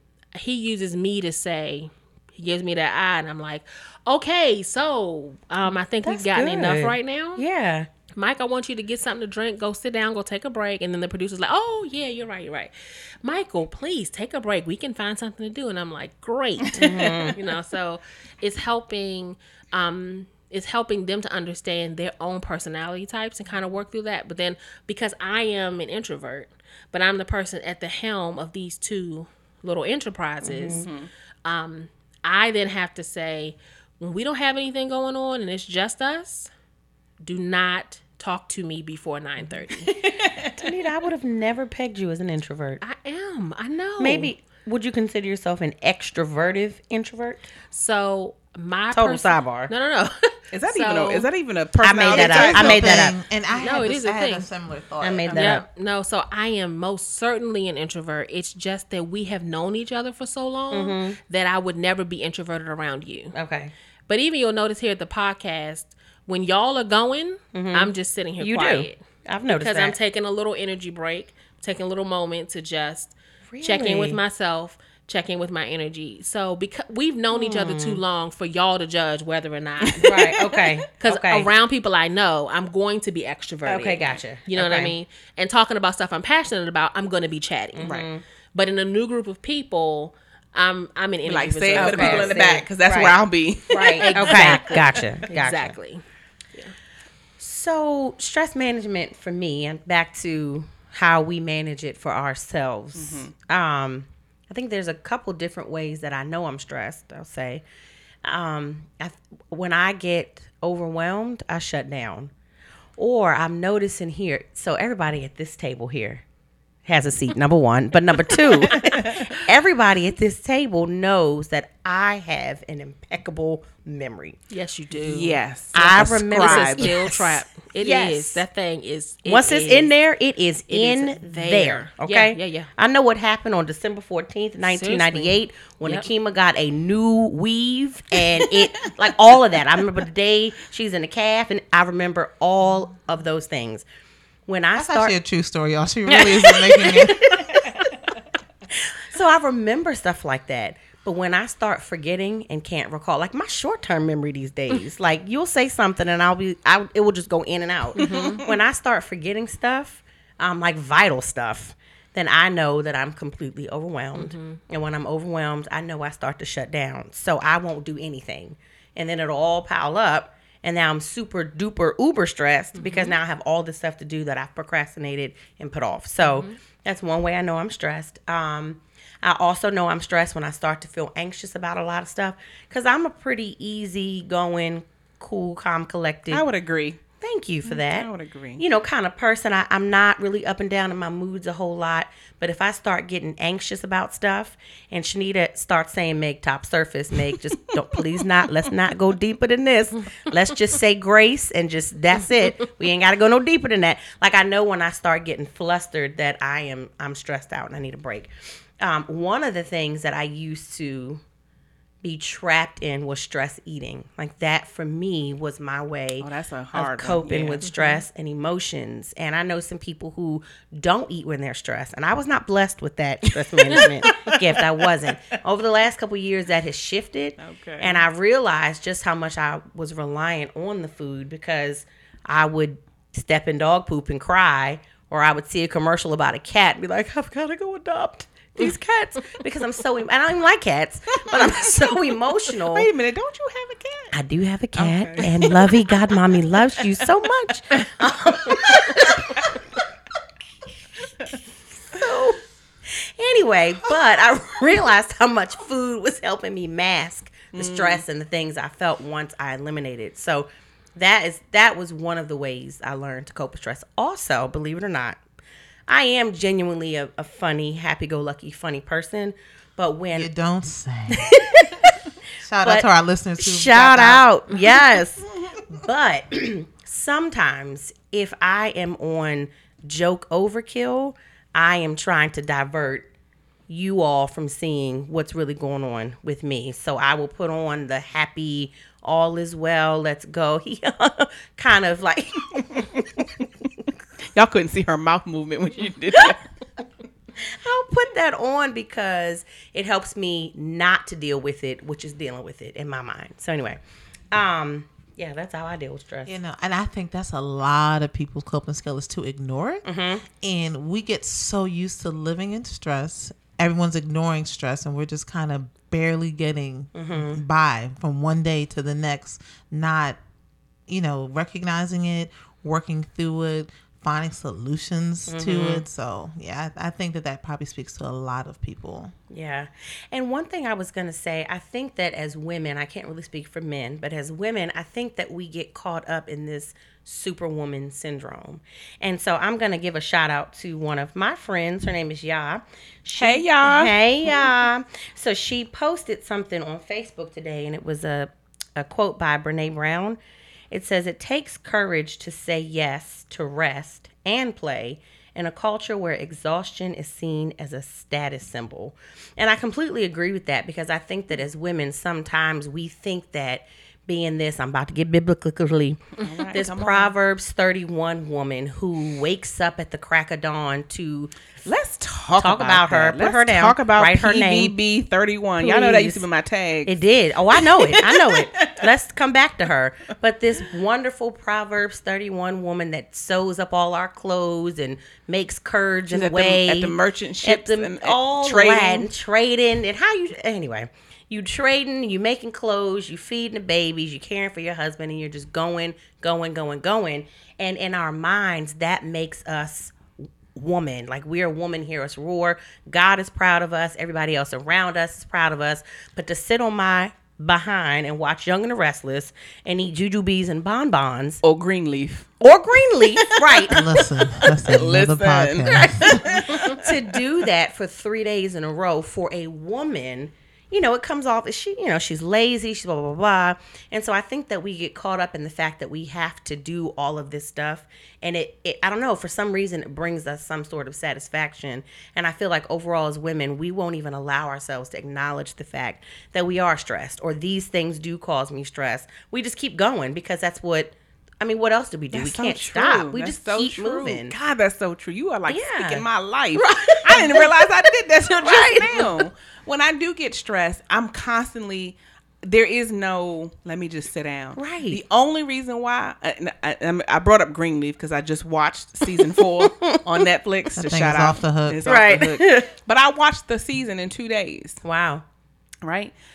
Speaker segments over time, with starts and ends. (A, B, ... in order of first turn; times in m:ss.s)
0:00.3-0:07.4 A
0:06.0-0:07.9 B
0:08.1-0:30.9 A
0:16.8-0:17.2 C
0:16.8-0:17.4 B
0:30.4-0:30.9 B
0:30.7-0:31.1 C
0:31.4-0:36.5 A
0:37.2-0:40.0 A
0:39.9-0:40.7 C
0:40.5-0:42.8 B
0:42.8-0:44.3 A
0:44.0-0:47.4 B
0:47.7-0:51.3 A
0:48.9-0:49.7 B
0:50.5-0:53.1 C
0:51.8-0:53.1 B
0:52.1-0:55.5 D
0:53.5-0:54.5 A
0:55.0-0:55.6 B
0:55.3-1:03.4 A
1:00.7-1:01.2 B
1:03.3-1:03.7 B
1:04.1-1:09.0 A
1:07.5-1:10.0 B
1:09.5-1:20.2 A
1:13.5-1:14.2 B
1:17.3-1:18.0 B
1:19.9-1:20.8 C
1:20.0-1:21.5 B
1:21.0-1:28.0 A
1:23.7-1:24.9 B
1:27.8-1:28.2 B
1:27.8-1:28.1 C
1:28.5-1:32.6 A
1:31.2-1:34.6 C
1:31.8-1:35.8 B
1:33.7-1:36.0 A
1:37.4-1:47.6 B
1:43.0-1:43.3 C
1:48.2-1:52.3 B
1:53.0-1:56.2 B
1:56.9-2:04.4 B
1:58.6-1:59.4 C
2:04.5-2:05.4 A
2:05.0-2:07.1 C
2:05.7-2:08.4 B
2:06.4-2:09.9 A
2:09.2-2:23.8 B
2:10.7-2:12.7 A
2:14.6-2:16.1 A
2:24.5-2:25.2 B
2:24.7-2:27.7 D
2:26.1-2:28.0 B
2:28.8-3:06.4 B
2:38.0-2:38.4 A
2:44.2-2:44.6 A
2:52.8-2:53.2 A
2:56.2-2:56.6 A
3:06.3-3:07.0 C
3:07.2-3:31.2 B
3:07.6-3:08.6 C
3:32.0-4:02.9 B
3:36.2-3:37.7 C
3:37.6-3:38.0 A
3:43.5-3:44.8 C
3:47.4-3:48.1 C
4:01.3-4:01.8 C
4:02.6-4:04.2 C
4:04.1-4:09.6 B
4:04.8-4:06.4 C
4:08.5-4:09.3 C
4:11.9-4:25.2 B
4:17.5-4:18.0 C
4:25.9-4:30.3 B
4:30.1-4:34.3 D
4:31.1-4:31.9 B
4:33.4-4:43.1 B
4:43.7-4:53.2 B
4:54.4-4:56.4 C
4:57.4-5:03.8 B
5:04.3-5:06.4 B
5:06.2-5:20.2 D
5:09.9-5:10.2 B
5:16.9-5:17.4 B
5:20.9-5:29.2 D
5:25.3-5:25.8 B
5:29.3-5:50.2 B
5:43.2-5:44.5 C
5:50.7-6:11.3 B
6:06.2-6:07.2 C
6:11.6-6:17.0 C
6:12.4-6:14.7 B
6:15.6-6:16.2 B
6:16.9-6:51.4 B
6:17.5-6:18.9 C
6:26.1-6:29.1 C
6:51.4-6:57.0 C
6:52.4-6:53.8 B
6:53.7-6:56.4 D
6:55.7-7:24.3 B
7:22.1-7:44.8 C
7:25.5-7:26.0 B
7:26.6-7:27.7 B
7:28.3-7:29.2 B
7:34.6-7:35.0 B
7:39.6-7:40.0 B
7:40.8-7:41.9 D
7:41.8-7:42.7 B
7:44.8-7:45.2 B
7:45.8-7:46.1 C